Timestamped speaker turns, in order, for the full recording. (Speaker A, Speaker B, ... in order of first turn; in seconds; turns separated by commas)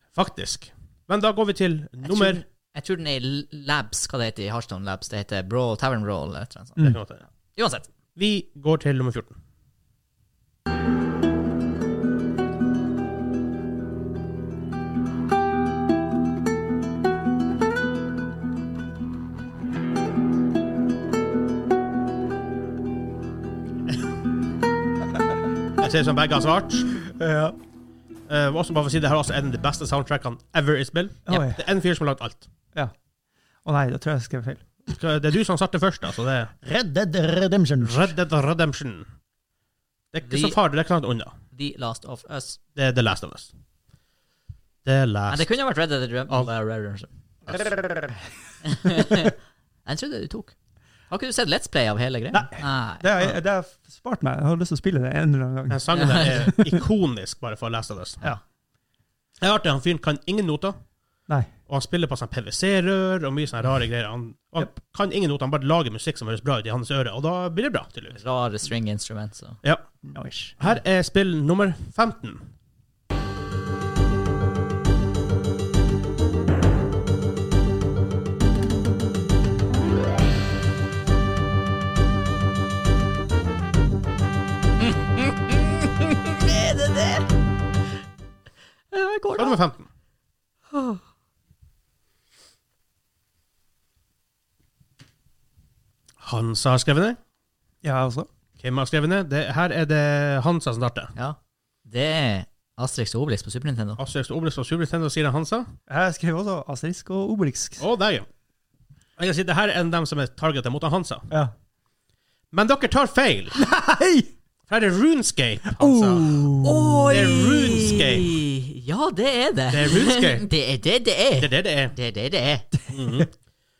Speaker A: 0.1-2.4, Speaker B: 2.0-7.0, Speaker A: 6.8-7.2, Speaker B: 7.6-7.9, Speaker A: 8.2-9.4, Speaker A: 25.8-27.0, Speaker C: 27.0-27.6, Speaker A: 28.3-32.5, Speaker C: 31.3-31.6, Speaker C: 33.6-34.7, Speaker A: 34.9-36.5, Speaker C: 36.6-38.1, Speaker A: 37.8-39.1, Speaker A: 40.1-41.4, Speaker B: 40.3-40.6, Speaker B: 41.5-42.6, Speaker A: 42.8-43.5, Speaker A: 44.9-45.5, Speaker B: 45.3-47.1, Speaker C: 47.5-48.2, Speaker B: 48.6-49.4, Speaker C: 48.9-49.3, Speaker B: 49.9-50.5, Speaker B: 51.1-53.1, Speaker C: 52.3-56.8, Speaker A: 55.7-58.2, Speaker B: 55.9-56.5, Speaker A: 59.4-60.8, Speaker A: 61.7-68.2, Speaker B: 68.2-69.6, Speaker C: 70.1-70.5, Speaker A: 70.6-72.5, Speaker B: 84.8-87.3, Speaker B: 88.9-89.6, Speaker A: 89.3-89.9, Speaker B: 90.7-91.0, Speaker A: 96.2-97.2, Speaker C: 97.8-98.3, Speaker A: 98.6-101.1, Speaker B: 101.2-104.0, Speaker A: 104.0-105.7, Speaker C: 105.9-107.8, Speaker A: 107.8-108.3, Speaker A: 109.2-111.3, Speaker A: 112.5-113.6, Speaker C: 113.5-114.3, Speaker A: 114.7-116.5, Speaker C: 115.8-116.9, Speaker B: 116.6-122.7, Speaker A: 117.1-118.4, Speaker A: 119.7-120.5, Speaker A: 121.4-121.9, Speaker A: 122.9-123.3